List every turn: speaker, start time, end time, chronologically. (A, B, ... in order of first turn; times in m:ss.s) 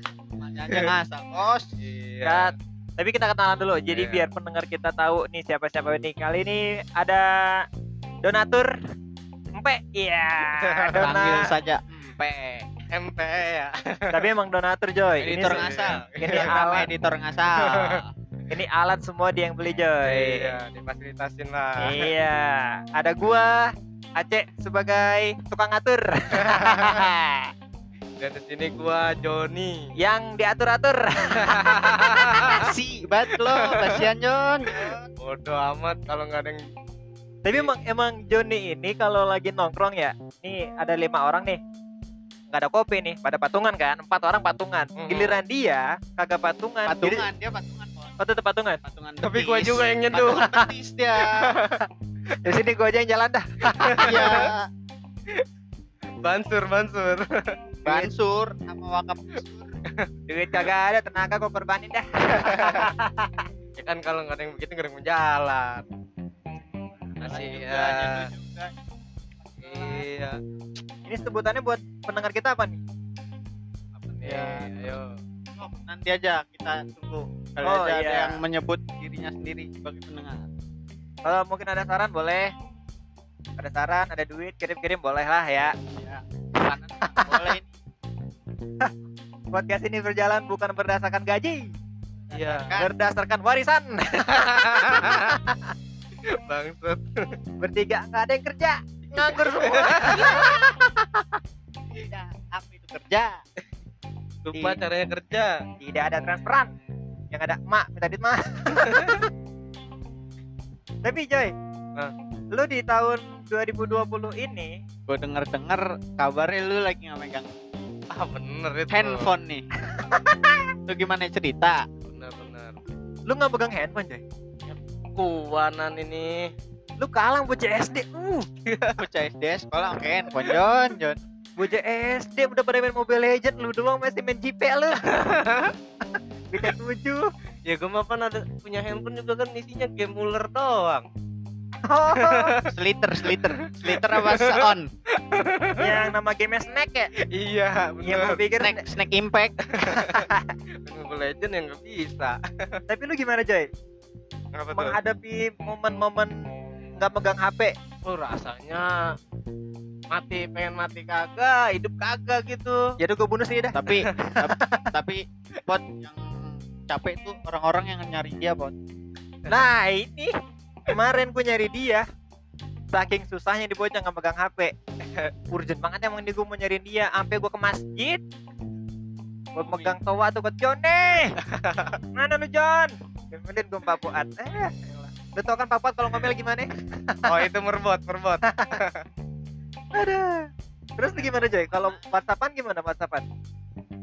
0:00.4-0:01.7 A
0:01.8-0:02.5 B
0:02.2-0:07.6 C
0:03.9-0:04.3 B
0:08.2-0:08.7 C
0:09.6-0:11.5 C
0:10.5-0:11.2 B
0:10.9-0:12.7 A
0:12.9-0:14.2 B
0:14.1-0:16.9 C
0:15.2-0:16.6 B
0:15.2-0:18.0 A
0:17.6-0:18.0 B
0:18.5-0:20.5 C
0:20.0-0:22.1 B
0:21.8-0:27.3 C
0:26.4-0:27.0 B
0:28.2-0:29.9 B
0:30.0-0:32.5 C
0:31.4-0:32.7 B
0:32.3-0:35.0 A
0:33.4-0:34.0 B
0:34.7-0:36.6 B
0:37.4-0:41.6 C
0:42.5-0:47.3 C
0:45.0-0:45.4 B
0:46.8-0:48.2 A
0:48.2-0:48.8 C
0:48.8-0:51.8 A
0:49.2-0:50.5 B
0:50.2-0:50.6 C
0:51.3-0:51.8 B
0:52.4-0:54.4 C
0:53.8-0:54.4 B
0:54.0-0:54.7 A
0:56.2-0:57.5 B
0:57.8-0:59.7 A
0:57.8-0:58.1 C
1:00.3-1:03.4 C
1:03.8-1:05.8 B
1:07.2-1:08.7 A
1:07.2-1:08.3 B
1:09.5-1:10.0 A
1:09.6-1:10.4 B
1:11.0-1:12.8 C
1:13.9-1:15.1 B
1:14.2-1:14.6 A
1:15.6-1:20.4 A
1:17.6-1:18.4 C
1:21.2-1:22.5 C
1:23.6-1:25.7 C
1:25.9-1:27.7 A
1:27.2-1:27.4 C
1:29.5-1:31.7 C
1:32.3-1:32.9 A
1:32.3-1:32.8 B
1:32.8-1:35.6 C
1:34.3-1:35.4 B
1:36.4-1:37.2 B
1:37.6-1:40.8 C
1:39.6-1:40.5 B
1:41.9-1:43.4 A
1:44.4-1:45.6 B
1:45.8-1:46.7 C
1:47.3-1:49.3 C
1:51.0-1:51.5 C
1:52.5-1:54.7 C
1:55.1-1:57.5 A
1:58.1-1:59.3 B
1:58.9-1:59.6 A
1:59.9-2:00.6 C
2:00.9-2:01.8 A
2:02.1-2:02.8 B
2:03.3-2:04.2 C
2:04.6-2:06.5 B
2:07.0-2:08.5 C
2:08.7-2:09.0 B
2:09.0-2:11.2 A
2:11.6-2:15.0 C
2:15.1-2:15.7 B
2:16.5-2:17.3 C
2:17.6-2:21.1 B
2:21.8-2:22.5 C
2:22.2-2:22.7 B
2:22.7-2:24.9 A
2:23.9-2:26.1 B
2:25.8-2:27.1 C
2:27.3-2:28.4 B
2:28.0-2:28.9 C
2:28.6-2:29.7 A
2:29.7-2:30.2 B
2:30.0-2:30.4 C
2:30.8-2:32.8 B
2:32.9-2:33.7 C
2:34.5-2:35.0 B
2:34.7-2:36.3 C
2:37.0-2:37.7 C
2:38.0-2:39.1 B
2:40.1-2:42.8 B
2:43.0-2:43.8 C
2:43.7-2:48.7 A
2:44.4-2:44.9 C
2:49.5-2:50.3 C
2:50.9-2:52.0 C
2:52.9-2:54.7 C
2:55.5-2:58.2 C
2:59.5-3:01.4 C
2:59.6-2:59.9 A
3:01.4-3:02.0 B
3:02.1-3:07.4 C
3:07.2-3:09.0 B
3:08.4-3:08.8 C
3:09.9-3:13.2 C